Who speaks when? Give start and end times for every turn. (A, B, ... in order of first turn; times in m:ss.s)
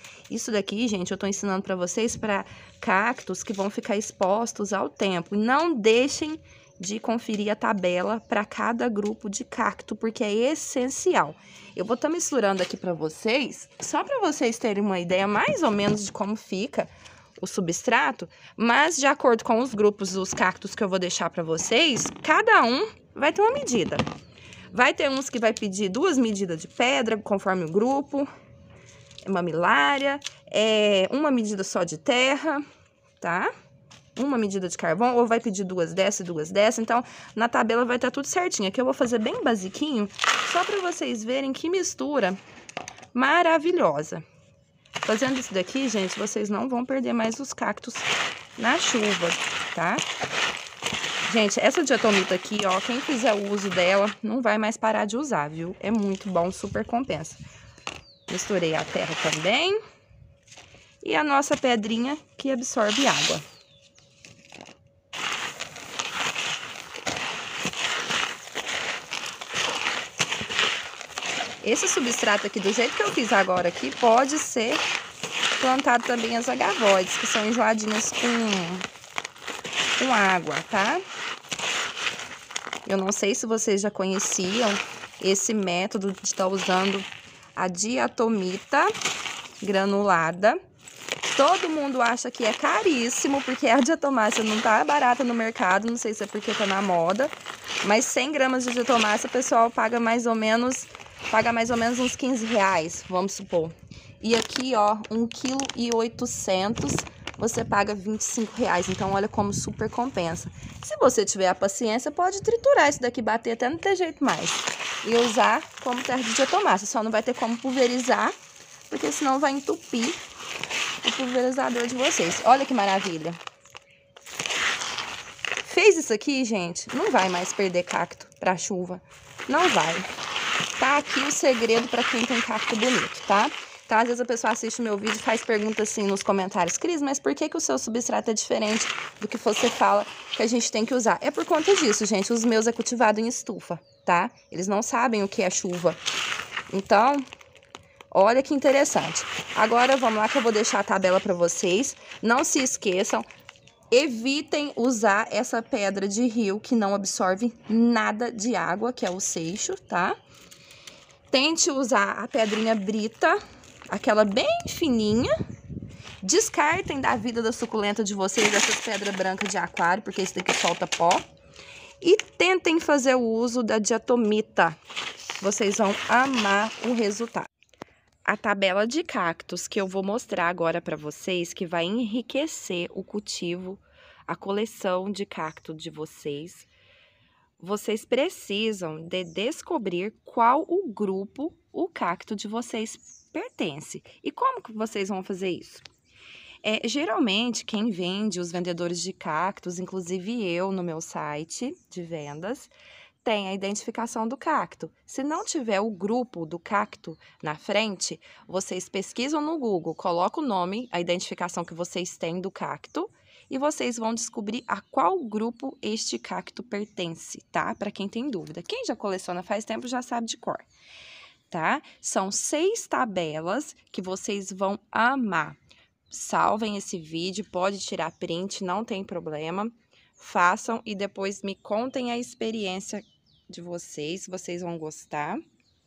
0:00.3-0:24.1 A
0:24.7-0:28.3 A
0:29.2-0:32.6 A
0:33.2-0:33.5 A
0:34.2-0:42.4 A
0:43.1-0:44.2 A
0:45.0-0:50.0 A
0:51.2-0:57.4 A
0:58.3-0:59.8 A
1:01.0-1:03.4 A
1:11.6-1:14.8 A
1:15.6-1:18.9 A
1:20.0-1:21.0 A
1:22.8-1:28.9 A
1:29.6-1:30.6 A
1:31.3-1:58.3 A
1:58.9-2:00.2 A
2:01.0-2:03.4 A
2:05.6-2:10.1 A
2:10.8-2:26.0 A
2:26.7-2:27.2 A
2:28.1-2:33.2 A
2:33.9-2:40.2 A
2:41.3-2:45.3 A
2:46.2-2:51.2 A
2:52.0-2:54.8 A
2:55.4-2:57.5 A
2:58.2-3:06.7 A
3:07.6-3:15.9 A
3:16.6-3:22.7 A
3:23.2-3:40.7 A
3:41.5-3:45.6 A
3:46.1-3:55.4 A